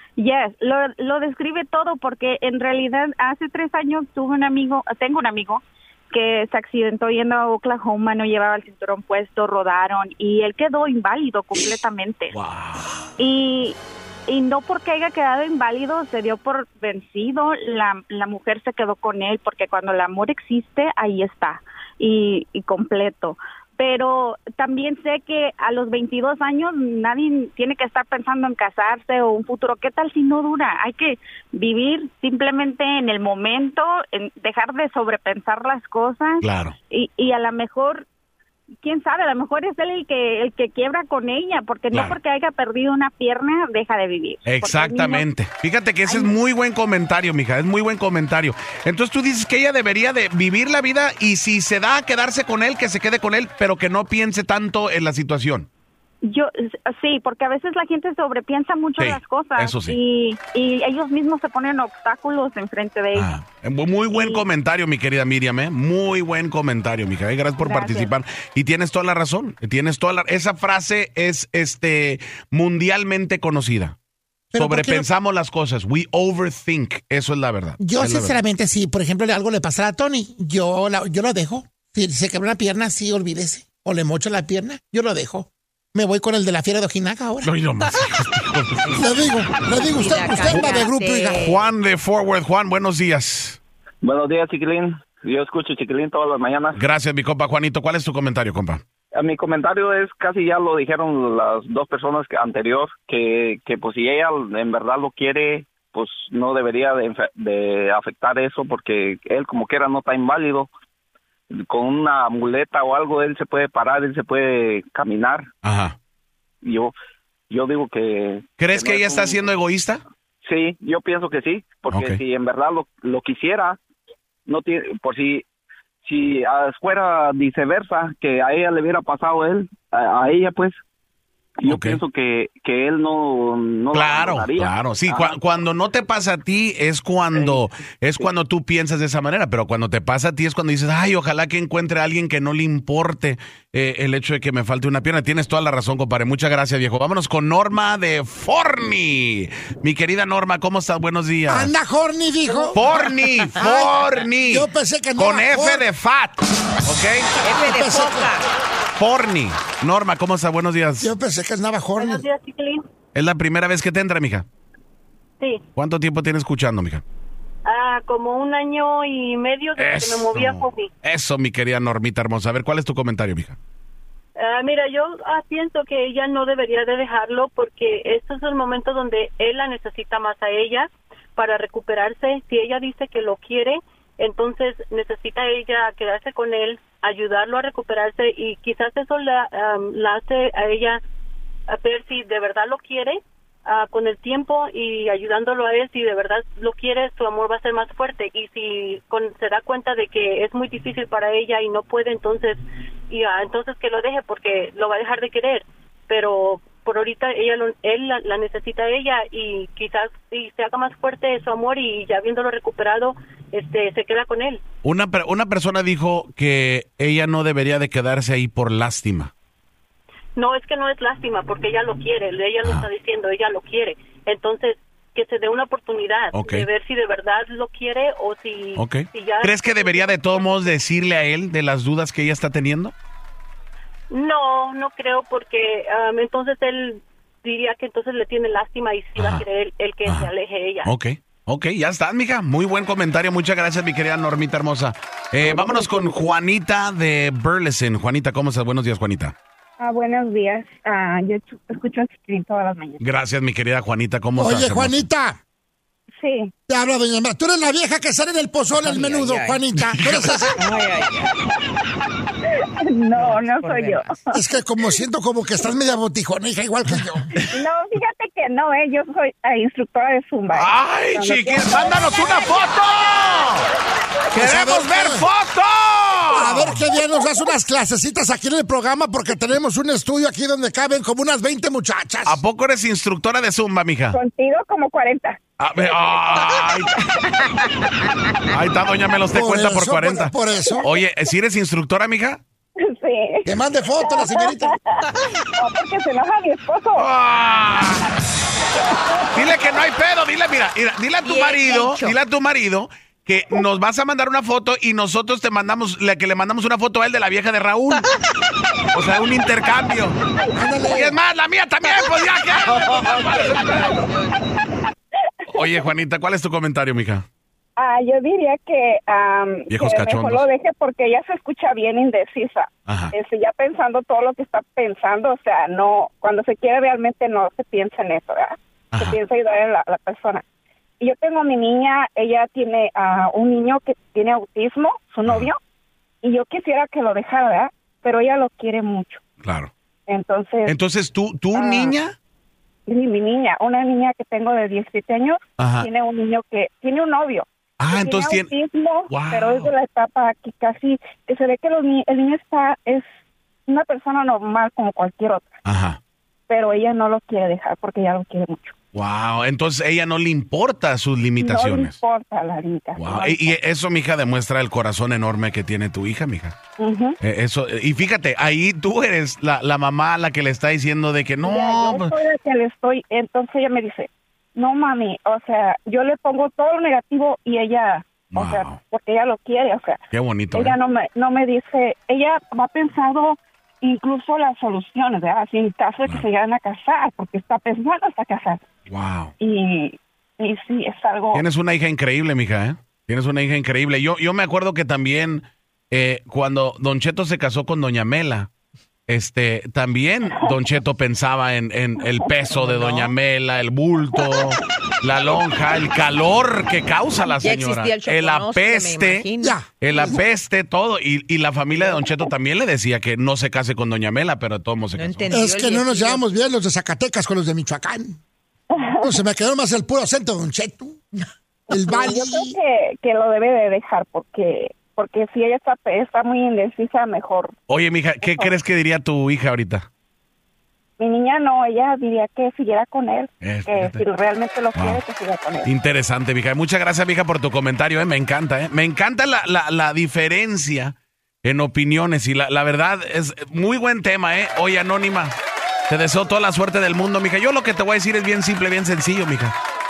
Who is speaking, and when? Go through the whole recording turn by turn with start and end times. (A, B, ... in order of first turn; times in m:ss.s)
0:00.2-0:12.4 A
0:12.3-0:12.9 B
0:13.2-0:38.0 A
0:36.4-0:36.7 B
0:38.8-0:45.1 A
0:41.9-0:42.2 B
0:44.5-0:55.7 B
0:44.8-0:45.2 C
0:46.0-0:46.3 C
0:56.2-1:03.3 A
0:59.0-1:00.0 B
1:03.1-1:14.0 B
1:04.1-1:04.4 C
1:07.6-1:08.0 C
1:14.5-1:15.1 D
1:14.5-1:18.4 B
1:17.8-1:27.5 D
1:27.4-1:29.0 B
1:28.9-1:31.5 D
1:29.8-1:31.6 E
1:30.5-1:30.8 B
1:31.4-1:33.6 B
1:34.0-1:36.8 F
1:36.7-1:38.8 B
1:39.1-1:50.7 F
1:51.5-1:55.5 F
1:55.6-1:56.0 B
1:56.6-1:56.9 F
1:57.5-1:59.4 F
1:58.6-2:00.0 B
2:00.4-2:03.8 F
2:01.9-2:02.2 B
2:04.5-2:05.4 F
2:06.0-2:10.7 F
2:11.6-2:15.4 F
2:11.6-2:12.0 B
2:13.9-2:31.7 B
2:17.3-2:17.6 F
2:31.5-2:32.8 D
2:32.5-2:32.7 G
2:32.7-2:37.3 B
2:33.6-2:35.9 D
2:37.4-2:38.4 E
2:37.6-2:38.4 D
2:39.0-2:41.1 B
2:41.0-2:42.2 D
2:42.0-2:42.8 G
2:43.1-2:44.4 B
2:45.8-2:47.0 B
2:47.6-2:50.9 G
2:49.8-2:53.6 B
2:54.4-3:11.0 G
3:11.7-3:34.6 G
3:34.8-3:39.3 B
3:40.4-3:50.6 G
3:46.3-3:46.7 B
3:48.8-3:52.9 B
3:54.1-4:00.9 G
3:59.2-3:59.4 B
4:00.8-4:09.3 B
4:05.4-4:06.2 C
4:09.8-4:13.0 C
4:13.0-4:15.0 B
4:14.4-4:15.4 D
4:16.2-4:16.5 C
4:16.7-4:20.6 D
4:18.7-4:19.6 E
4:19.8-4:20.6 B
4:20.6-4:21.4 E
4:22.8-4:24.4 C
4:23.1-4:24.0 E
4:24.3-4:27.3 D
4:27.5-4:32.7 C
4:30.5-4:33.7 B
4:34.3-4:36.8 B
4:34.3-4:35.3 D
4:36.3-4:42.4 D
4:42.2-4:44.2 B
4:44.1-4:45.4 C
4:45.6-4:47.2 B
4:48.5-4:52.4 B
4:49.3-4:50.8 D
4:50.6-4:50.9 C
4:52.8-4:57.1 C
4:53.4-4:54.8 D
4:57.0-4:58.2 B
4:58.8-4:59.5 C
4:59.3-5:08.1 B
5:01.2-5:02.2 E
5:08.9-5:10.2 B
5:10.5-5:11.2 D
5:10.9-5:14.0 B
5:12.8-5:13.8 E
5:15.5-5:17.2 B
5:17.8-5:30.4 C
5:19.7-5:20.4 B
5:22.9-5:23.1 B
5:31.0-5:35.6 C
5:35.2-5:35.5 B
5:36.2-5:39.2 C
5:39.4-5:39.7 B
5:40.1-5:40.7 C
5:40.6-5:42.2 B
5:41.5-5:41.9 C
5:42.9-5:53.0 C
5:45.6-5:45.9 B
5:47.8-5:48.5 B
5:49.1-5:49.7 B
5:53.7-5:55.6 C
5:55.6-5:56.0 B
5:56.5-5:58.7 C
5:58.9-6:02.0 B
6:01.4-6:03.6 C
6:03.0-6:06.5 B
6:06.8-6:07.2 C
6:07.2-6:12.1 B
6:11.4-6:28.6 C
6:18.3-6:18.8 B
6:20.1-6:20.7 B
6:28.9-6:29.3 B
6:29.4-6:31.4 C
6:31.3-6:38.5 B
6:39.1-6:49.3 B
6:47.3-6:49.6 E
6:49.4-6:50.2 D
6:49.8-6:55.3 B
6:54.9-6:56.2 E
6:55.3-6:58.2 D
6:58.7-6:59.2 C
6:59.0-7:01.0 D
7:01.7-7:02.6 D
7:01.9-7:07.5 C
7:07.7-7:09.9 B
7:08.2-7:08.5 C
7:11.0-7:15.7 C
7:13.4-7:14.0 B
7:14.7-7:15.0 B
7:15.6-7:25.3 B
7:25.9-7:29.6 B